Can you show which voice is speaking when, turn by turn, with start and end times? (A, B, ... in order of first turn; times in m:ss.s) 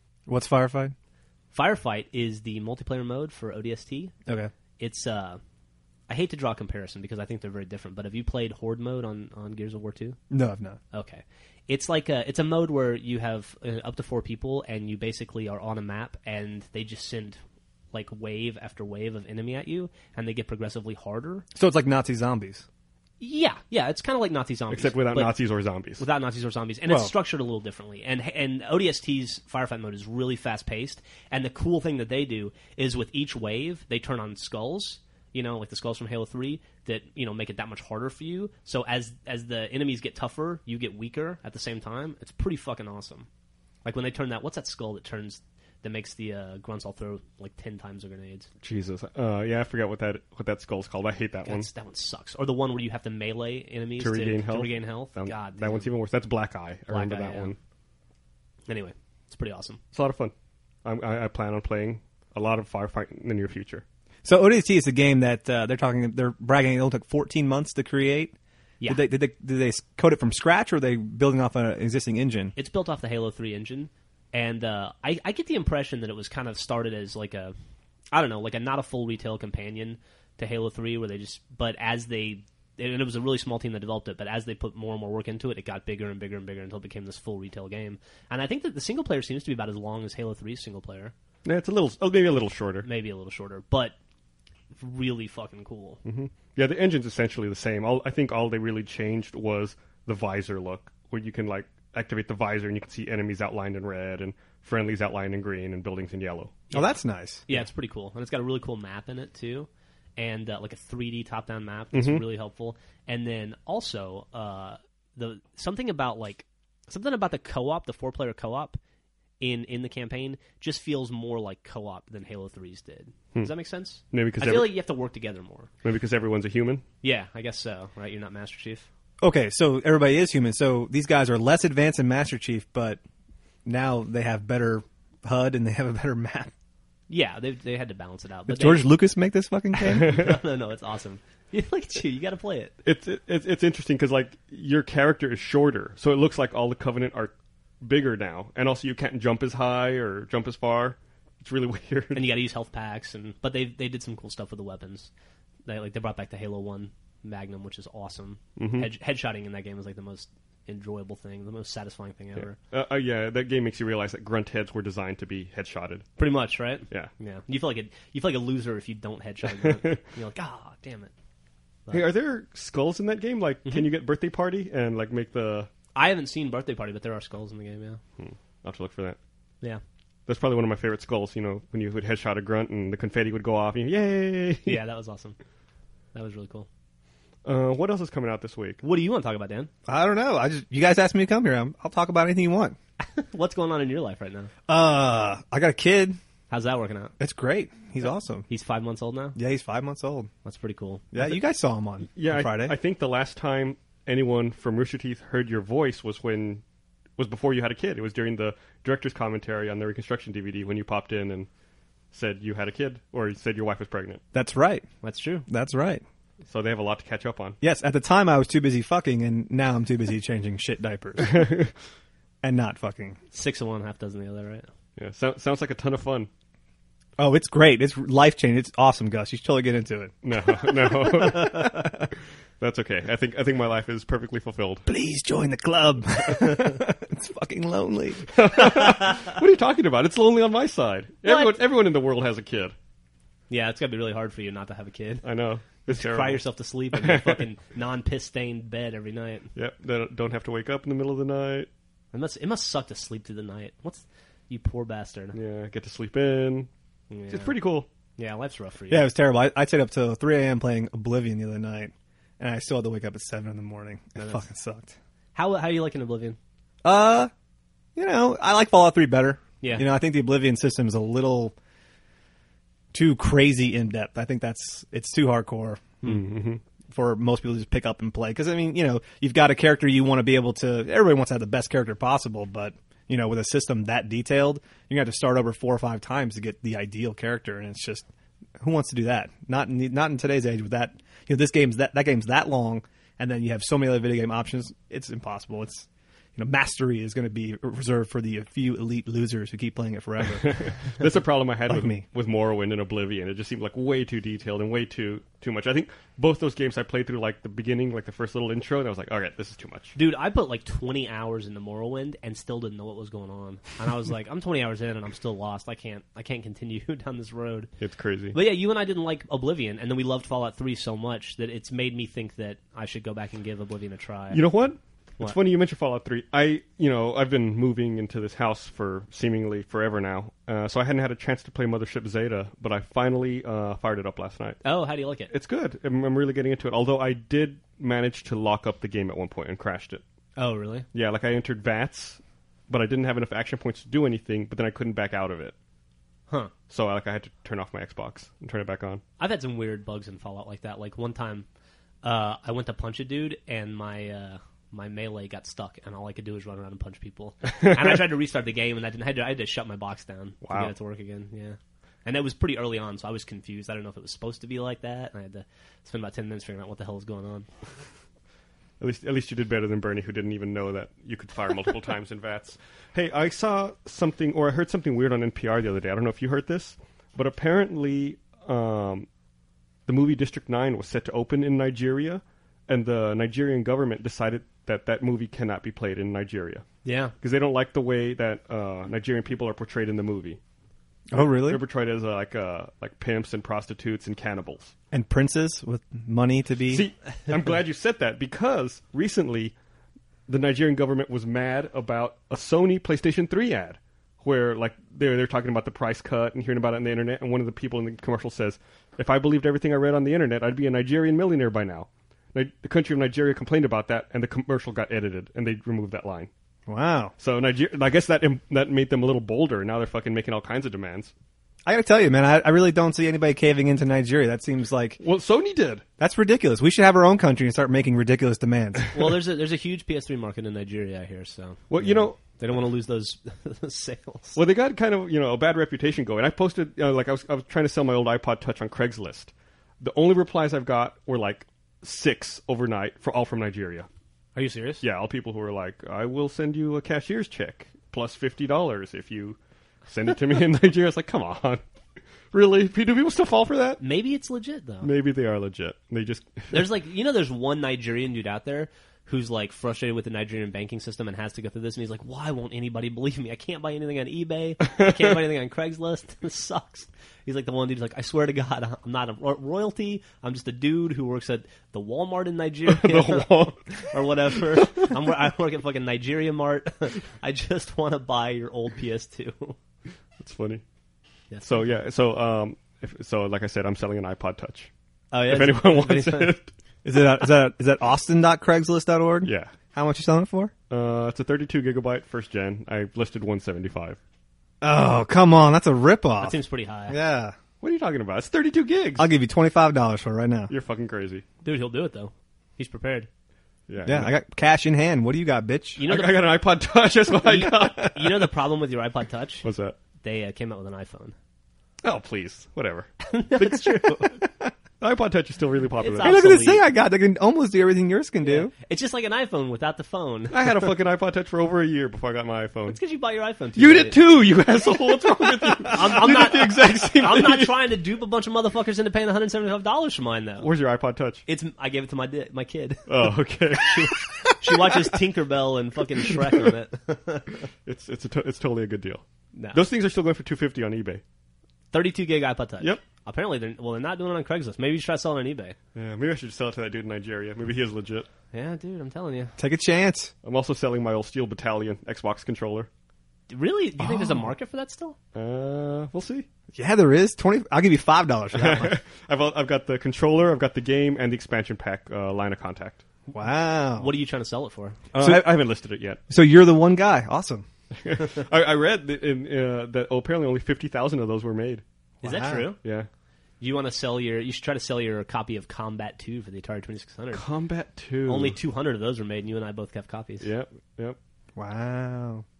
0:00.3-0:00.9 A
0:01.5-0:04.1 B
0:04.2-0:04.5 A
0:04.8-0:05.4 B
0:06.1-0:10.2 B
0:10.3-0:10.8 A
0:10.9-0:17.4 B
0:17.9-0:21.4 B
0:21.5-0:22.6 A
0:23.2-0:25.3 B
0:24.7-0:26.0 C
0:26.0-0:43.3 B
0:26.9-0:27.1 A
0:43.8-0:48.5 B
0:48.6-0:51.7 C
0:51.4-0:55.9 B
0:54.0-0:57.6 C
0:56.9-0:57.5 B
0:58.7-0:59.8 B
0:59.9-1:00.3 C
1:00.8-1:03.8 C
1:04.2-1:08.3 A
1:08.9-1:12.5 A
1:12.6-1:17.5 B
1:18.1-1:31.1 B
1:31.4-1:32.9 C
1:32.8-1:33.9 B
1:34.8-1:36.0 B
1:36.0-1:46.6 C
1:46.7-1:58.8 B
1:46.7-1:47.4 A
1:51.9-1:52.2 C
1:59.4-2:05.7 B
2:04.1-2:04.7 C
2:05.8-2:06.8 C
2:07.0-2:08.9 B
2:09.2-2:13.0 A
2:13.6-2:16.5 A
2:17.1-2:18.8 B
2:18.5-2:20.2 A
2:19.9-2:22.7 B
2:20.0-2:20.3 C
2:22.8-2:32.3 C
2:32.1-2:35.1 B
2:35.6-2:42.6 B
2:38.6-2:38.9 C
2:42.4-2:46.1 C
2:46.2-2:51.1 B
2:49.6-2:50.0 C
2:51.9-2:55.7 C
2:55.9-2:58.0 B
2:58.2-2:59.2 C
3:00.3-3:04.8 C
3:04.6-3:05.4 B
3:06.1-3:06.7 B
3:07.4-3:08.8 C
3:08.8-3:09.7 B
3:09.9-3:12.8 A
3:13.0-3:14.5 B
3:14.7-3:16.2 A
3:16.5-3:17.1 B
3:17.2-3:18.5 A
3:18.5-3:19.4 B
3:19.4-3:20.3 A
3:20.4-3:21.4 B
3:21.1-3:22.8 A
3:22.2-3:26.6 C
3:27.2-3:31.5 C
3:32.1-3:34.2 C
3:34.3-3:34.8 A
3:35.0-3:35.4 B
3:35.5-3:36.0 A
3:36.5-3:37.6 C
3:37.6-3:41.5 A
3:41.2-3:41.7 C
3:42.4-3:43.2 A
3:43.3-3:44.7 B
3:45.0-3:46.3 C
3:47.2-3:52.0 A
3:50.2-3:52.0 C
3:52.6-3:54.9 C
3:54.9-3:58.7 A
3:58.3-4:02.7 C
4:01.2-4:01.5 B
4:03.5-4:05.2 B
4:05.2-4:06.4 C
4:05.9-4:09.5 B
4:06.9-4:07.4 C
4:09.5-4:11.7 C
4:12.1-4:15.4 B
4:15.3-4:16.7 C
4:17.1-4:17.5 B
4:17.3-4:17.9 C
4:18.2-4:19.1 B
4:18.9-4:24.9 A
4:24.2-4:24.4 B
4:25.3-4:26.4 B
4:26.8-4:27.3 A
4:28.0-4:31.5 A
4:29.6-4:29.8 B
4:32.9-4:36.0 A
4:36.0-4:36.6 C
4:36.9-4:48.0 A
4:48.6-5:00.6 A
5:00.4-5:09.9 C
5:01.7-5:02.0 A
5:09.9-5:17.7 B
5:17.8-5:18.4 C
5:18.3-5:24.4 B
5:24.3-5:34.6 C
5:34.6-5:35.3 B
5:35.3-5:40.0 C
5:40.4-5:40.8 B
5:40.9-5:45.5 C
5:46.7-5:49.0 C
5:49.2-5:51.5 B
5:52.0-6:07.5 B
6:00.4-6:00.7 C
6:08.8-6:19.1 C
6:19.9-6:26.6 C
6:26.8-6:27.1 B
6:27.2-6:30.4 C
6:31.1-6:31.6 A
6:31.1-6:34.7 C
6:34.9-6:36.8 A
6:36.7-6:39.5 C
6:40.3-6:56.3 C
6:56.7-6:57.1 A
6:57.2-7:01.1 C
7:01.6-7:05.0 A
7:05.0-7:05.8 C
7:06.0-7:08.9 A
7:08.9-7:14.4 B
7:11.7-7:12.2 C
7:14.4-7:23.9 C
7:24.3-7:24.8 B
7:24.8-7:31.6 C
7:32.3-7:33.8 C
7:33.8-7:34.9 B
7:34.8-7:36.6 C
7:36.5-7:59.6 B
7:44.7-7:45.0 C
7:52.7-7:54.0 C
7:54.5-7:54.9 C
8:00.2-8:00.6 C
8:01.4-8:04.7 C
8:05.1-8:06.3 B
8:05.3-8:06.5 C
8:06.8-8:10.5 A
8:09.2-8:09.5 C
8:10.7-8:14.0 C
8:14.6-8:16.4 A
8:16.2-8:17.0 B
8:16.9-8:17.4 A
8:17.6-8:19.1 C
8:19.0-8:20.5 A
8:20.5-8:21.2 C
8:21.4-8:23.1 B
8:23.7-8:24.1 C
8:23.8-8:25.8 A
8:25.8-8:26.2 B
8:25.8-8:28.3 C
8:27.2-8:29.4 B
8:29.4-8:29.8 C
8:30.0-8:31.2 B
8:31.8-8:34.2 C
8:33.0-8:34.2 B
8:34.8-8:36.1 C
8:35.8-8:36.6 B
8:36.0-8:38.5 A
8:38.2-8:40.4 B
8:40.3-8:42.8 C
8:42.7-8:44.0 B
8:43.6-8:47.6 C
8:45.7-8:50.5 B
8:50.4-8:51.2 C
8:51.2-8:52.9 B
8:52.9-8:54.0 C
8:53.5-8:57.4 B
8:57.6-9:01.0 C
8:59.3-8:59.6 B
9:01.7-9:05.6 B
9:05.7-9:08.1 C
9:08.3-9:09.4 B
9:09.4-9:10.1 A
9:10.2-9:12.7 C
9:13.3-9:15.0 B
9:13.8-9:14.3 A
9:15.1-9:16.2 C
9:16.5-9:18.7 A
9:18.3-9:22.8 C
9:23.1-9:23.9 A
9:23.8-9:24.8 B
9:24.9-9:26.0 C
9:25.0-9:25.3 A
9:26.1-9:27.4 A
9:27.8-9:31.6 C
9:32.0-9:32.5 A
9:32.0-9:32.6 B
9:32.6-9:32.9 C
9:33.4-9:37.2 B
9:37.1-9:38.4 C
9:38.1-9:40.3 B
9:40.2-9:41.0 C
9:41.4-9:42.2 A